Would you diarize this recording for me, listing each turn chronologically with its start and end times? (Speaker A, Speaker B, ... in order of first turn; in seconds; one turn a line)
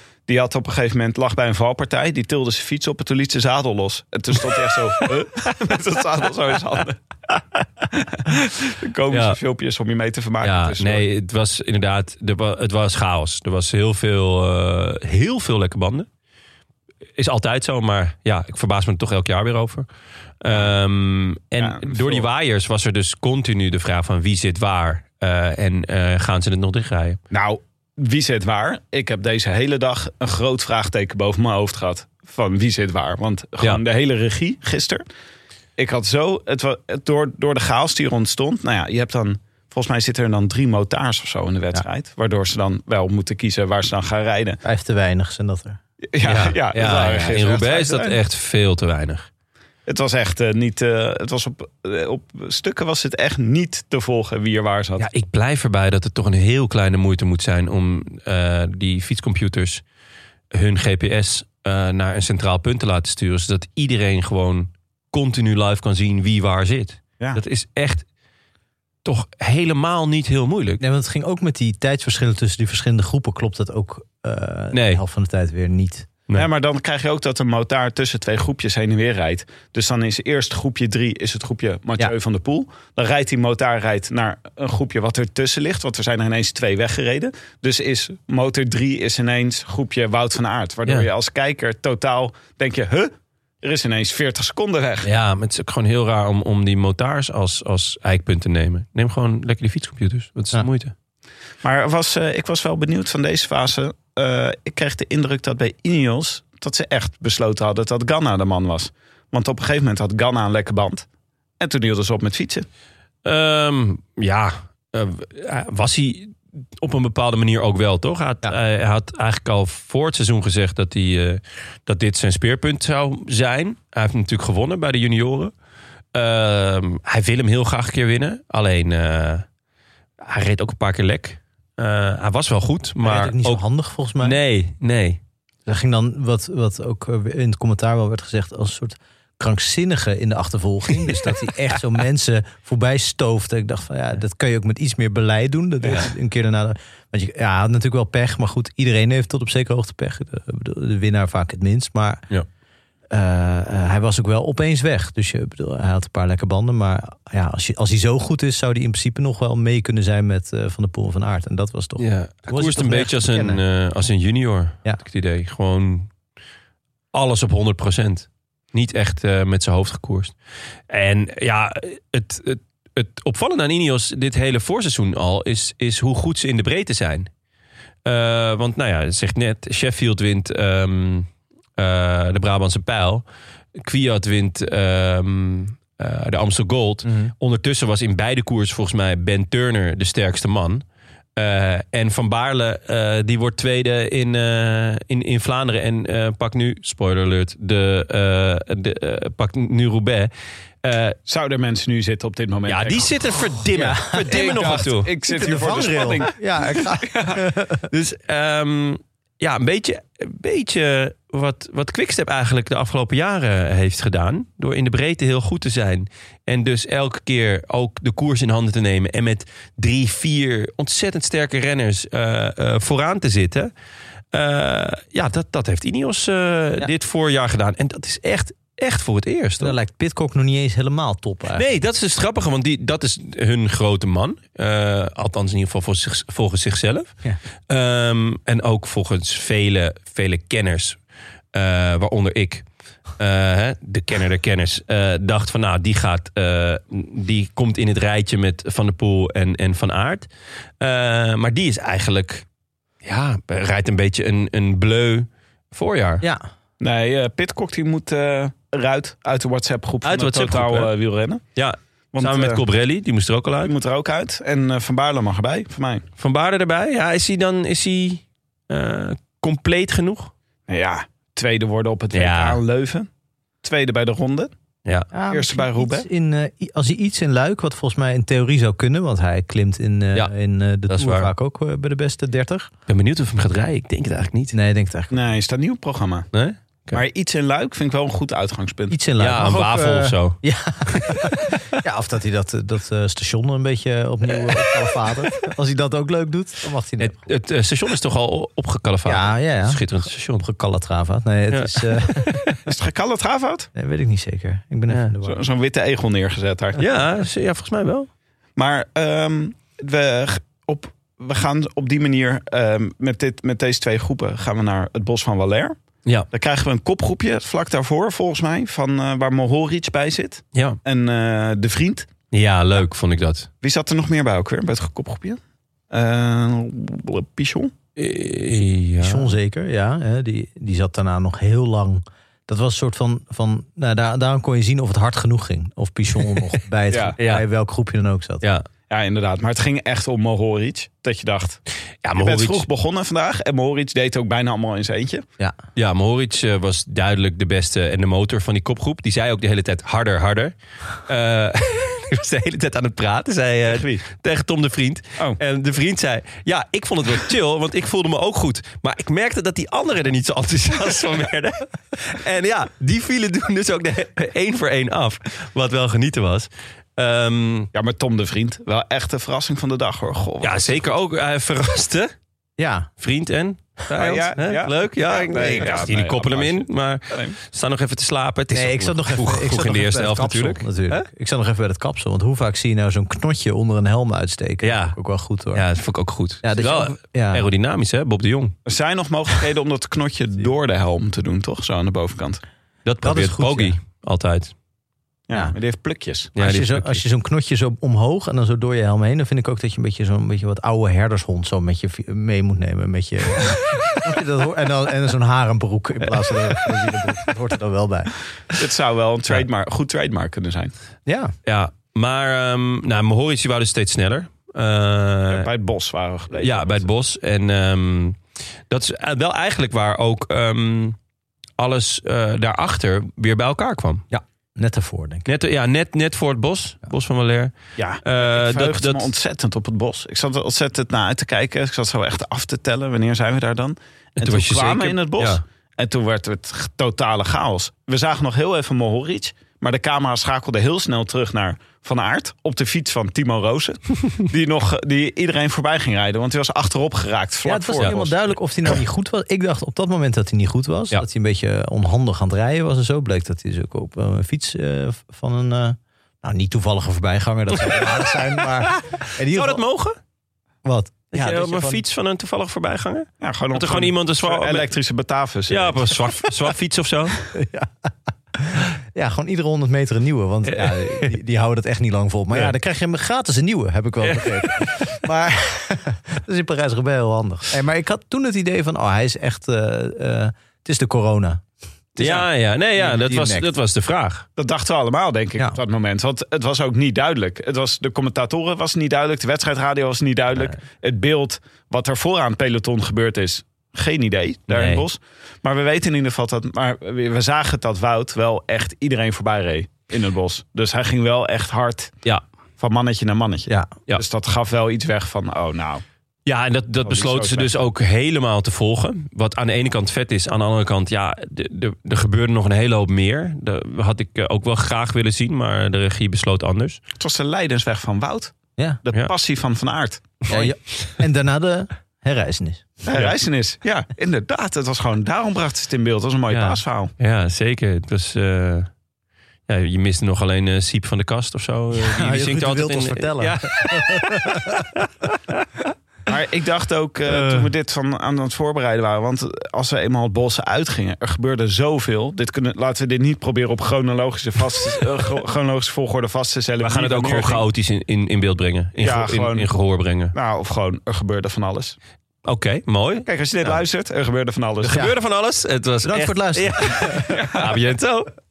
Speaker A: 0.3-7.0
Speaker A: 7.9-11.1
Speaker B: 9.1-9.4
Speaker B: 10.4-16.1
Speaker B: 17.2-19.9
Speaker B: 20.4-27.2
Speaker A: 20.5-20.8
Speaker A: 21.6-22.3
Speaker A: 27.3-35.0
Speaker A: 35.8-44.6
Speaker C: 44.6-45.8
Speaker A: 46.1-48.2
Speaker B: 46.2-49.3
Speaker A: 49.9-55.1
Speaker B: 55.0-59.8
Speaker B: 60.5-68.1
Speaker B: 69.0-70.8
Speaker C: 70.8-76.1
Speaker B: 74.7-75.0
Speaker A: 76.3-95.1
Speaker B: 95.0-100.9
Speaker A: 101.6-111.1
Speaker A: 111.6-112.7
Speaker B: 113.2-125.5
Speaker B: 126.1-129.4
Speaker B: 130.2-133.6
Speaker C: 133.0-134.4
Speaker B: 134.2-135.2
Speaker C: 135.7-152.2
Speaker C: 153.1-163.6
Speaker B: 162.0-166.1
Speaker B: 167.1-170.3
Speaker B: 170.9-177.3
Speaker B: 178.1-183.2
Speaker B: 183.8-190.8
Speaker C: 187.1-187.3
Speaker B: 191.4-200.3
Speaker B: 200.8-201.2
Speaker A: 201.3-203.4
Speaker B: 202.7-205.1
Speaker C: 203.7-207.9
Speaker A: 204.3-207.4
Speaker B: 207.9-223.7
Speaker B: 224.3-229.8
Speaker C: 229.6-231.7
Speaker B: 231.6-237.1
Speaker B: 237.7-241.0
Speaker B: 241.5-242.7
Speaker B: 243.2-250.3
Speaker B: 250.8-252.4
Speaker B: 253.0-256.3
Speaker A: 256.8-261.4
Speaker B: 260.0-260.9
Speaker B: 261.6-263.7
Speaker A: 262.1-262.6
Speaker A: 263.6-266.1
Speaker B: 266.2-270.3
Speaker A: 270.7-273.1
Speaker B: 272.1-272.6
Speaker A: 273.6-274.5
Speaker C: 275.1-282.7
Speaker A: 275.3-276.1
Speaker B: 280.9-281.3
Speaker B: 282.9-284.6
Speaker C: 284.5-285.2
Speaker A: 285.1-286.3
Speaker B: 286.3-287.0
Speaker A: 286.9-289.0
Speaker C: 288.9-297.3
Speaker B: 289.2-291.8
Speaker B: 297.0-300.4
Speaker C: 299.1-302.4
Speaker B: 301.5-302.6
Speaker A: 302.6-303.7
Speaker C: 303.8-305.4
Speaker A: 305.2-306.8
Speaker B: 306.8-308.1
Speaker A: 308.6-315.8
Speaker A: 316.3-322.1
Speaker B: 322.3-323.5
Speaker A: 323.6-325.4
Speaker A: 325.9-327.7
Speaker B: 327.9-329.3
Speaker C: 329.0-338.4
Speaker A: 336.9-337.1
Speaker B: 337.2-337.4
Speaker A: 338.9-341.6
Speaker B: 342.0-342.6
Speaker A: 342.2-345.2
Speaker B: 345.8-350.5
Speaker B: 351.1-367.7
Speaker A: 353.7-354.0
Speaker A: 367.7-370.9
Speaker B: 370.4-372.1
Speaker C: 372.6-372.9
Speaker B: 373.0-381.1
Speaker A: 373.9-377.4
Speaker C: 375.3-375.9
Speaker C: 378.5-385.6
Speaker B: 384.6-385.0
Speaker B: 385.5-388.6
Speaker C: 386.4-387.4
Speaker A: 388.6-392.4
Speaker B: 392.9-394.5
Speaker C: 393.0-393.8
Speaker A: 395.3-396.3
Speaker B: 396.4-397.0
Speaker C: 396.4-408.1
Speaker A: 408.5-410.7
Speaker C: 411.1-411.3
Speaker B: 411.4-415.5
Speaker A: 415.3-416.9
Speaker B: 416.4-420.9
Speaker B: 421.6-424.0
Speaker C: 424.1-425.3
Speaker B: 425.3-429.1
Speaker A: 427.8-448.2
Speaker B: 434.2-435.4
Speaker C: 447.4-459.6
Speaker B: 459.3-460.0
Speaker C: 460.6-461.8
Speaker B: 461.1-464.7
Speaker A: 463.2-466.3
Speaker B: 465.5-467.2
Speaker C: 467.3-481.4
Speaker B: 470.5-471.1
Speaker B: 474.0-474.8
Speaker B: 482.0-484.2
Speaker A: 482.0-482.3
Speaker C: 482.8-483.5
Speaker A: 484.4-502.0
Speaker B: 494.5-494.8
Speaker A: 502.6-505.8
Speaker B: 506.3-516.8
Speaker A: 506.9-507.6
Speaker A: 517.0-520.4
Speaker C: 520.3-522.8
Speaker A: 522.9-526.9
Speaker B: 526.3-528.7
Speaker B: 529.5-535.4
Speaker C: 531.8-534.6
Speaker A: 536.1-547.4
Speaker B: 546.6-550.1
Speaker A: 548.8-549.5
Speaker A: 550.1-551.8
Speaker B: 552.2-553.6
Speaker A: 553.1-554.9
Speaker B: 554.6-558.1
Speaker C: 555.8-557.1
Speaker A: 557.1-557.4